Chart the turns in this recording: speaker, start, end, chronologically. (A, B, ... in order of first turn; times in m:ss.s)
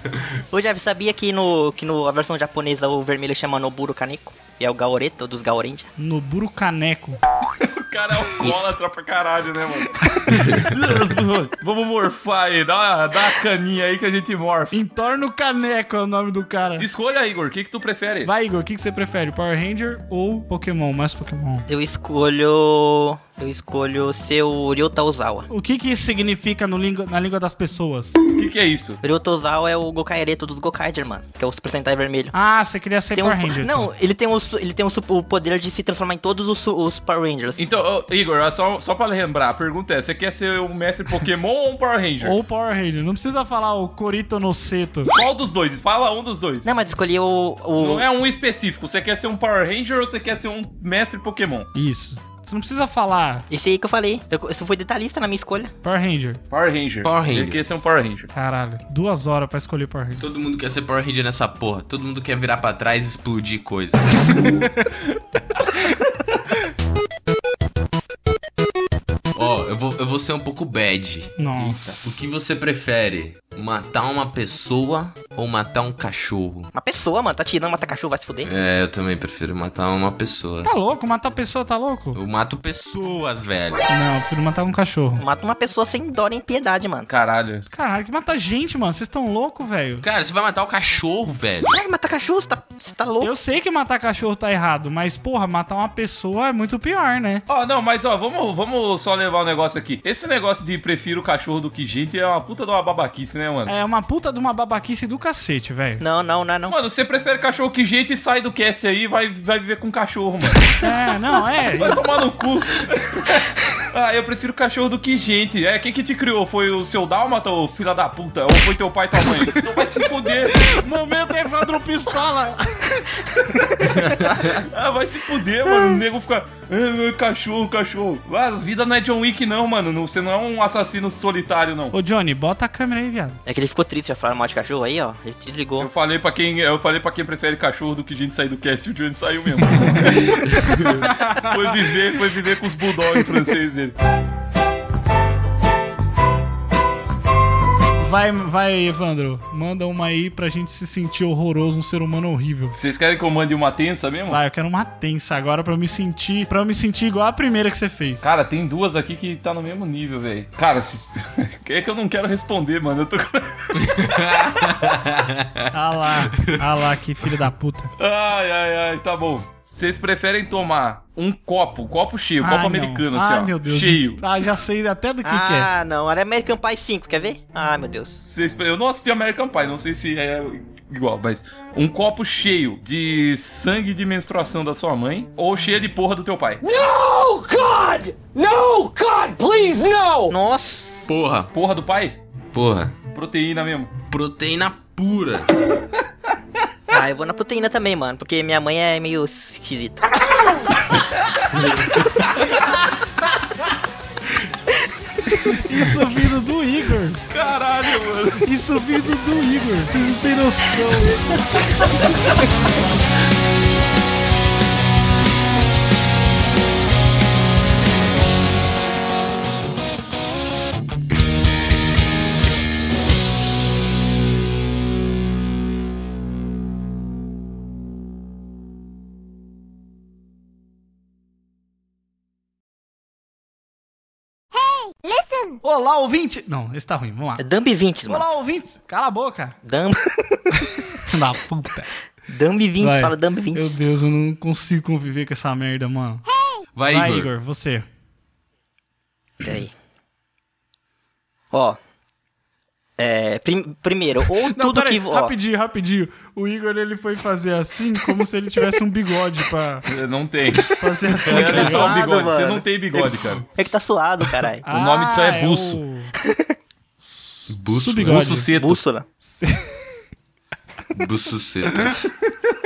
0:00.5-0:05.9 A
0:06.0-0:07.2 B
0:07.6-0:10.0 C
0:08.4-0:08.7 A
0:10.0-0:10.6 B
0:10.3-0:10.6 D
0:10.5-0:14.7 C
0:14.7-0:16.8 B
0:16.8-0:18.3 C
0:18.2-0:21.7 B
0:21.7-0:25.5 A
0:25.5-0:28.2 B
0:28.3-0:29.0 C
0:29.0-0:32.3 A
0:32.3-0:33.9 B
0:33.1-0:37.6 A
0:37.6-0:42.4 C
0:42.2-0:45.1 B
0:45.1-0:46.7 C
0:46.6-0:48.1 A
0:47.8-0:51.7 C
0:51.7-0:53.4 B
0:53.5-0:55.7 A
0:55.8-0:56.4 B
0:56.5-0:58.3 C
0:57.0-0:57.6 D
0:58.3-1:00.2 B
1:00.2-1:04.4 D
1:04.6-1:04.9 B
1:09.3-1:11.4 D
1:11.4-1:12.0 B
1:11.6-1:12.1 C
1:12.0-1:16.7 D
1:16.7-1:18.5 A
1:18.4-1:20.7 D
1:20.6-1:22.2 B
1:22.1-1:23.9 D
1:23.9-1:25.2 B
1:25.2-1:27.1 A
1:27.1-1:27.6 C
1:27.7-1:30.0 B
1:30.0-1:31.8 D
1:31.7-1:33.3 A
1:33.2-1:37.4 B
1:37.5-1:43.7 C
1:43.7-1:46.0 B
1:46.0-1:46.8 A
1:46.7-1:50.7 C
1:50.8-1:52.0 B
1:51.7-2:00.7 C
2:00.5-2:04.0 B
2:04.0-2:04.5 D
2:04.3-2:11.9 C
2:11.9-2:13.4 B
2:13.4-2:15.9 A
2:15.8-2:23.9 C
2:19.7-2:21.7 B
2:28.0-2:32.8 B
2:32.7-2:34.4 C
2:34.3-2:38.2 B
2:38.2-2:43.8 C
2:43.7-2:46.8 D
2:45.7-2:47.9 B
2:48.0-2:54.2 C
2:52.4-2:55.7 B
2:55.2-2:58.2 A
2:58.2-3:06.6 C
3:06.6-3:10.3 E
3:10.3-3:11.0 A
3:11.1-3:11.5 D
3:11.5-3:12.2 C
3:12.5-3:13.0 D
3:13.1-3:13.9 C
3:14.0-3:15.5 D
3:16.9-3:20.1 A
3:25.4-3:27.2 B
3:27.3-3:28.5 C
3:28.4-3:31.7 B
3:55.6-3:57.4 B
3:57.4-3:58.3 A
3:58.1-3:59.6 B
3:59.6-4:00.6 A
4:01.0-4:01.9 B
4:02.3-4:03.8 A
4:02.8-4:06.2 B
4:06.7-4:07.3 D
4:06.9-4:07.8 B
4:09.4-4:09.7 A
4:11.5-4:11.8 A
4:13.0-4:15.3 A
4:14.4-4:19.8 B
4:19.9-4:23.4 C
4:20.7-4:22.0 B
4:21.3-4:21.7 D
4:21.5-4:24.6 A
4:24.6-4:26.1 B
4:24.7-4:25.8 C
4:26.2-4:26.5 A
4:27.0-4:28.5 B
4:27.5-4:28.4 D
4:28.1-4:28.8 C
4:28.5-4:29.0 A
4:29.2-4:29.8 B
4:30.9-4:32.0 D